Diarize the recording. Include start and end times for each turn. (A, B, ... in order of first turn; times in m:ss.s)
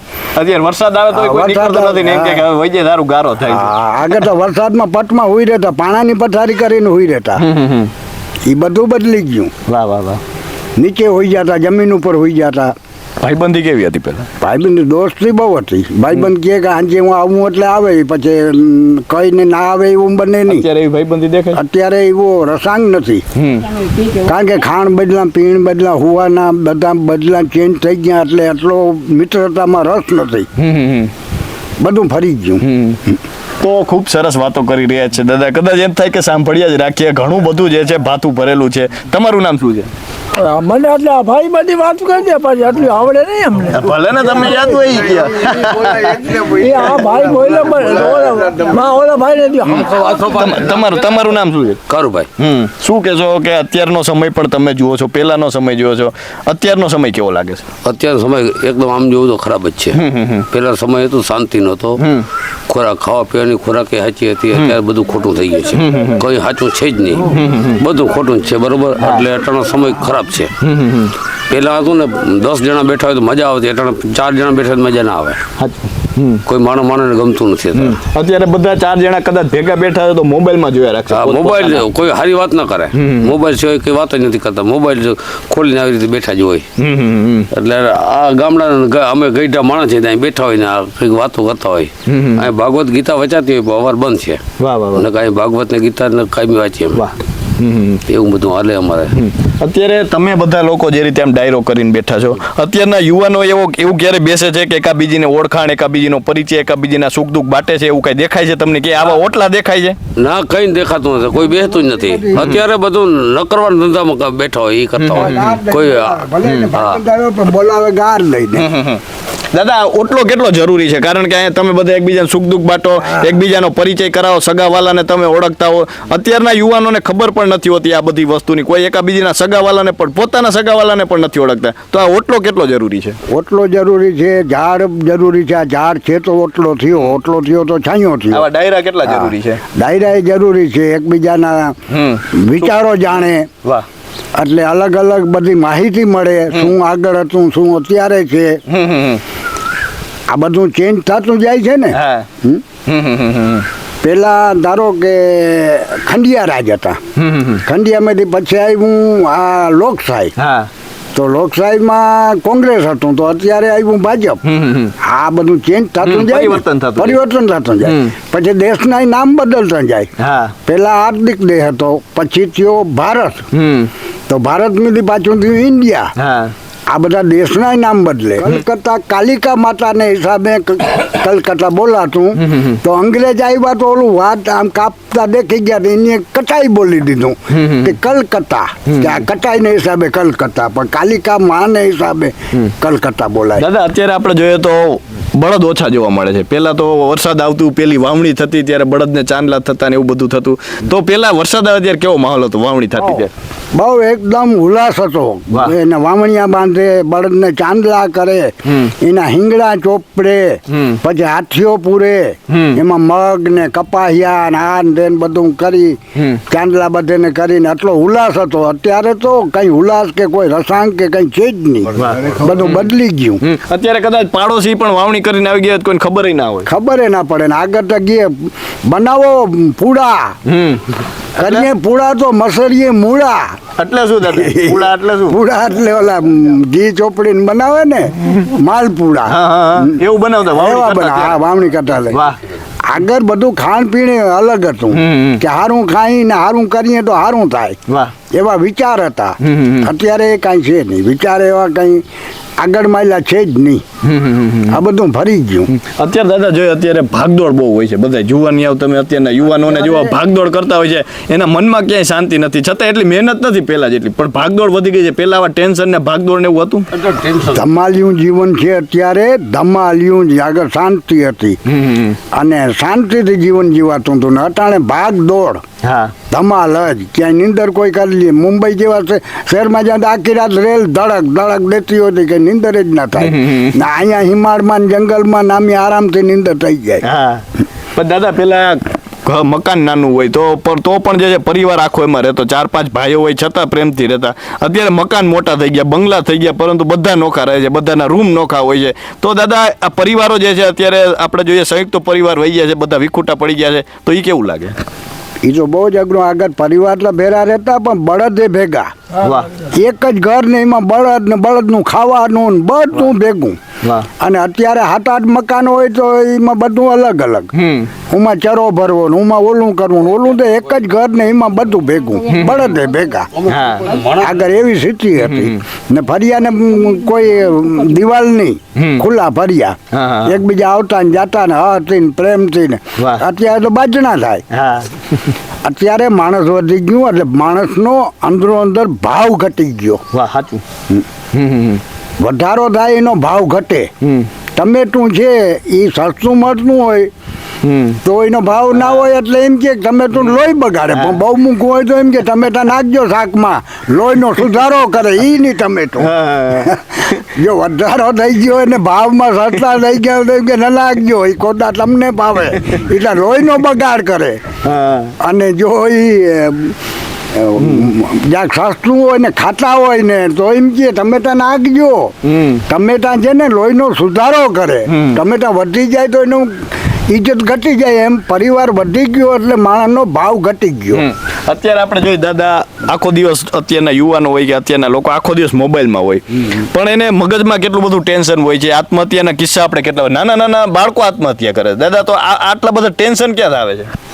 0:00.3-0:03.7 A
0:01.1-0:02.4 B
0:03.4-0:07.4 B
0:07.4-0:07.9 A
0:08.4-0:09.5 B
0:09.7-0:10.2 A
0:10.8-0:12.7 B
0:13.2-0:14.3 A
0:14.4-0:20.7 B
0:20.5-0:21.6 A
0:21.5-0:23.2 B
0:23.3-0:23.7 A
0:24.0-0:30.5 B
0:30.6-0:31.1 A
0:31.8-0:32.6 B
0:32.6-0:33.0 A
0:33.6-0:39.9 A
0:40.4-0:44.9 C
0:43.7-0:46.3 A
0:46.2-0:50.2 C
0:50.2-0:51.8 A
0:51.9-0:52.3 D
0:52.4-0:57.6 A
0:57.8-1:02.0 D
0:59.9-1:00.4 A
1:02.0-1:02.2 A
1:02.7-1:10.5 D
1:05.8-1:06.2 A
1:07.3-1:07.8 A
1:10.6-1:11.1 A
1:11.5-1:15.4 D
1:15.6-1:16.4 A
1:16.4-1:18.0 D
1:17.8-1:21.8 A
1:21.1-1:26.7 D
1:22.9-1:23.3 A
1:26.8-1:27.5 A
1:27.5-1:34.4 D
1:32.1-1:32.5 A
1:34.6-1:35.0 A
1:34.9-1:37.0 D
1:36.9-1:38.0 A
1:38.1-1:39.2 D
1:39.2-1:50.0 A
1:50.2-1:57.0 D
1:51.8-1:52.5 B
1:55.0-1:55.6 A
1:55.1-1:58.7 B
1:58.6-2:13.2 A
2:13.3-2:18.5 B
2:18.3-2:19.6 A
2:19.0-2:21.8 B
2:21.9-2:22.7 A
2:22.3-2:23.5 B
2:24.4-2:28.6 B
2:28.7-2:29.2 A
2:30.3-2:32.6 B
2:31.9-2:32.2 A
2:32.8-2:33.6 A
2:34.0-2:37.0 B
2:37.2-2:37.6 A
2:37.6-2:40.3 B
2:40.4-2:40.7 A
2:41.1-2:44.4 B
2:44.4-2:44.9 A
2:45.0-2:50.1 B
2:46.0-2:47.2 A
2:47.8-2:48.1 A
2:50.2-2:50.5 A
2:50.6-2:53.5 B
2:53.5-2:53.9 A
2:54.3-2:56.1 B
2:56.2-2:56.5 A
2:56.9-3:13.6 B
3:02.4-3:02.8 A
3:07.5-3:07.9 A
3:08.9-3:09.2 A
3:13.6-3:23.3 A
3:23.7-3:43.4 B
3:30.7-3:31.0 A
3:32.5-3:32.8 A
3:36.2-3:36.4 A
3:42.0-3:42.9 A
3:43.4-3:46.7 A
3:46.6-3:50.4 B
3:50.4-3:50.8 A
3:51.4-3:53.6 B
3:51.4-3:51.7 A
3:53.8-3:55.4 A
3:54.3-4:00.0 B
3:59.3-4:01.4 A
4:00.5-4:02.2 B
4:02.1-4:02.4 A
4:02.8-4:07.8 B
4:04.9-4:05.4 A
4:08.3-4:12.0 B
4:09.4-4:09.9 A
4:12.6-4:13.8 B
4:14.0-4:14.8 A
4:14.7-4:15.7 B
4:15.7-4:26.9 A
4:19.6-4:20.1 B
4:27.0-4:27.5 D
4:27.5-4:31.6 B
4:31.7-4:32.2 A
4:32.3-4:35.6 B
4:35.8-4:36.1 A
4:36.3-4:47.0 B
4:43.2-4:43.7 A
4:47.0-4:47.4 A
4:47.9-5:04.7 A
5:05.4-5:08.9 B
5:09.2-5:09.5 A
5:09.6-5:13.6 B
5:14.2-5:17.5 B
5:17.5-5:17.9 A
5:18.1-5:34.4 B
5:23.4-5:24.1 A
5:25.2-5:25.6 A
5:28.8-5:29.0 A
5:29.9-5:30.4 A
5:33.0-5:33.2 A
5:34.5-5:35.3 A
5:35.6-5:40.0 B
5:40.1-5:40.6 A
5:41.3-5:41.8 A
5:42.2-5:43.9 B
5:44.6-5:47.1 B
5:47.6-5:48.0 A
5:48.0-6:04.4 B
5:56.0-5:56.7 A
6:04.6-6:05.1 A
6:05.2-6:06.8 B
6:07.3-6:12.1 B
6:07.6-6:07.9 A
6:12.2-6:12.6 A
6:12.7-6:21.0 B
6:14.9-6:15.2 A
6:20.9-6:33.9 A